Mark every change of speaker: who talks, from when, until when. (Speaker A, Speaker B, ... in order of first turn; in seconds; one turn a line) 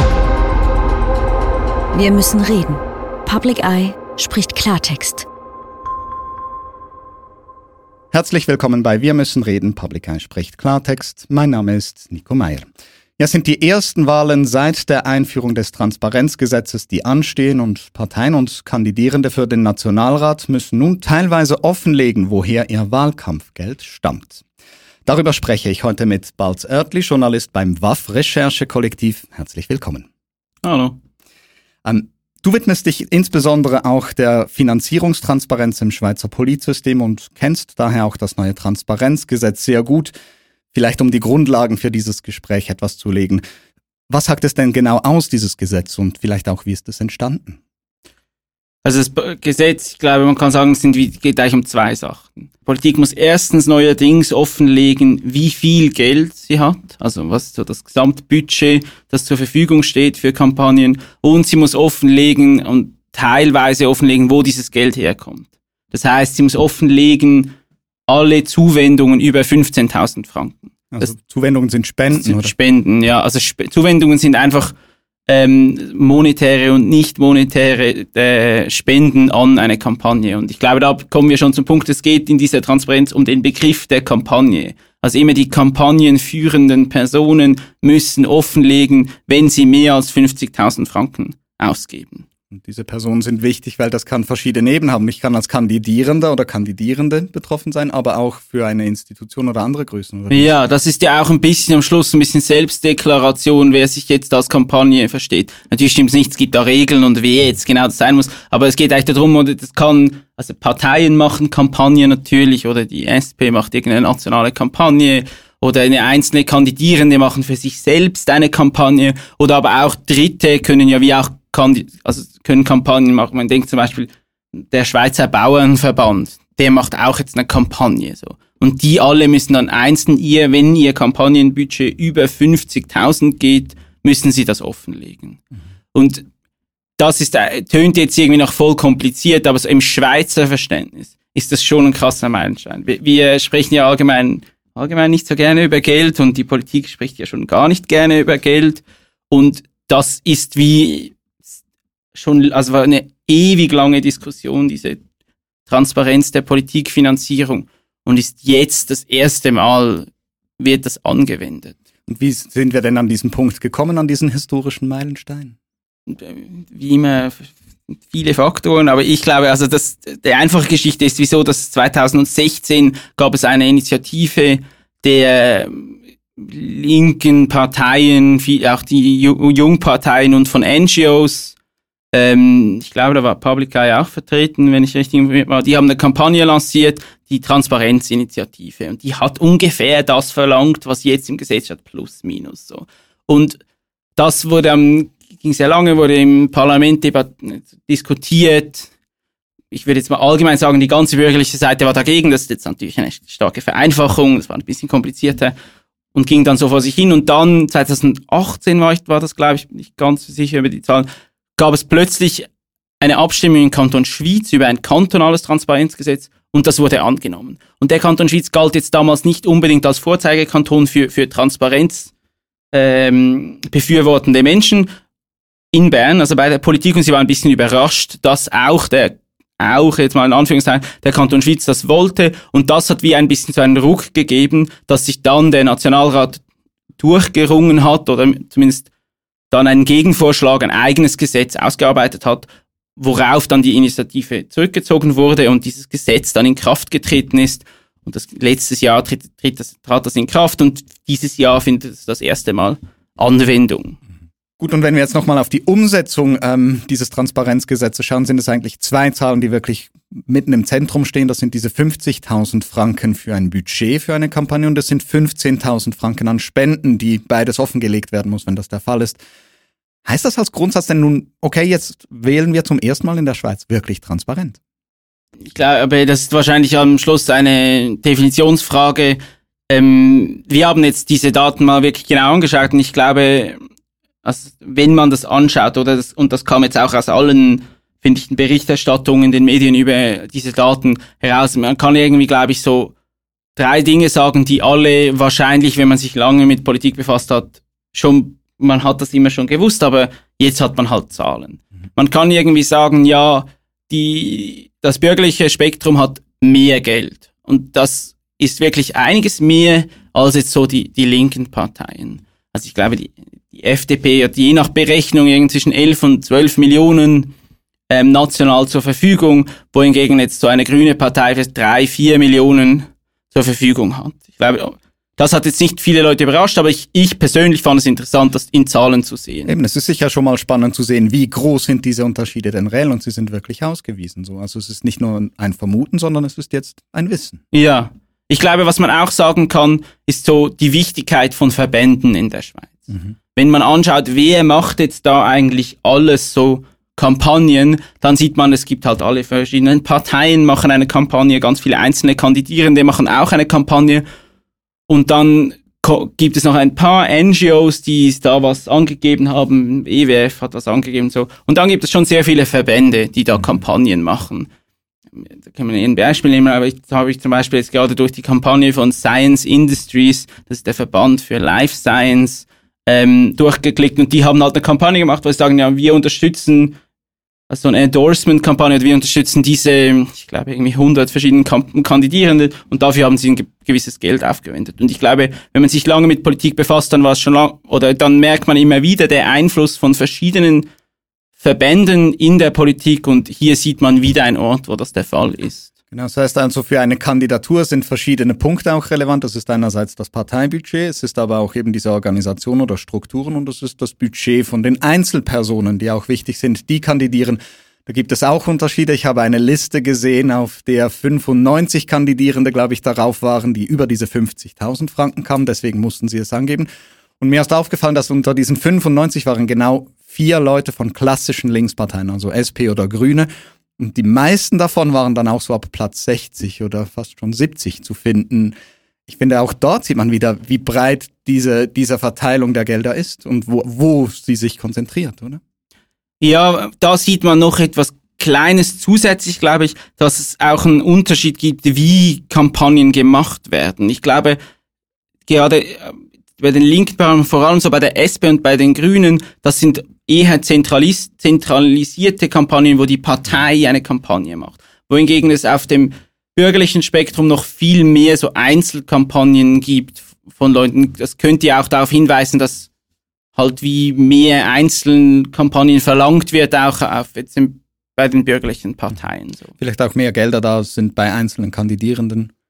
Speaker A: 1.9-5.3
Speaker B: 8.1-12.7
Speaker B: 13.2-24.4
Speaker B: 25.1-30.1
Speaker C: 30.6-31.0
Speaker B: 31.9-40.1
Speaker B: 40.7-43.4
Speaker B: 44.1-47.6
Speaker C: 48.8-67.5
Speaker C: 68.1-71.1
Speaker B: 70.9-72.5
Speaker C: 72.2-74.7
Speaker C: 75.3-92.3
Speaker B: 92.5-100.5
Speaker C: 100.3-135.4
Speaker C: 135.9-136.2
Speaker C: 137.0-151.2
Speaker C: 152.1-155.0
Speaker C: 155.7-160.1
Speaker C: 160.6-161.8
Speaker B: 162.1-165.5
Speaker C: 166.1-167.5
Speaker C: 168.1-181.6
Speaker C: 182.1-193.6
Speaker C: 194.2-198.9
Speaker C: 199.7-205.6
Speaker C: 206.1-212.5
Speaker C: 213.0-222.1
Speaker C: 222.7-224.9
Speaker C: 225.7-236.4
Speaker C: 237.0-238.9
Speaker C: 239.5-254.0
Speaker B: 254.6-269.2
Speaker B: 270.1-274.6
Speaker C: 275.4-283.6
Speaker C: 284.2-292.9
Speaker C: 293.6-317.3
Speaker C: 317.9-329.5
Speaker B: 329.5-337.4
Speaker C: 337.5-354.0
Speaker B: 342.9-343.1
Speaker C: 354.9-364.5
Speaker C: 365.1-376.8
Speaker C: 377.5-390.7
Speaker C: 391.4-395.7
Speaker B: 395.9-416.7
Speaker B: 417.2-428.6
Speaker B: 429.1-435.4
Speaker C: 436.2-444.4
Speaker C: 445.3-462.7
Speaker C: 463.4-469.5
Speaker B: 469.6-472.3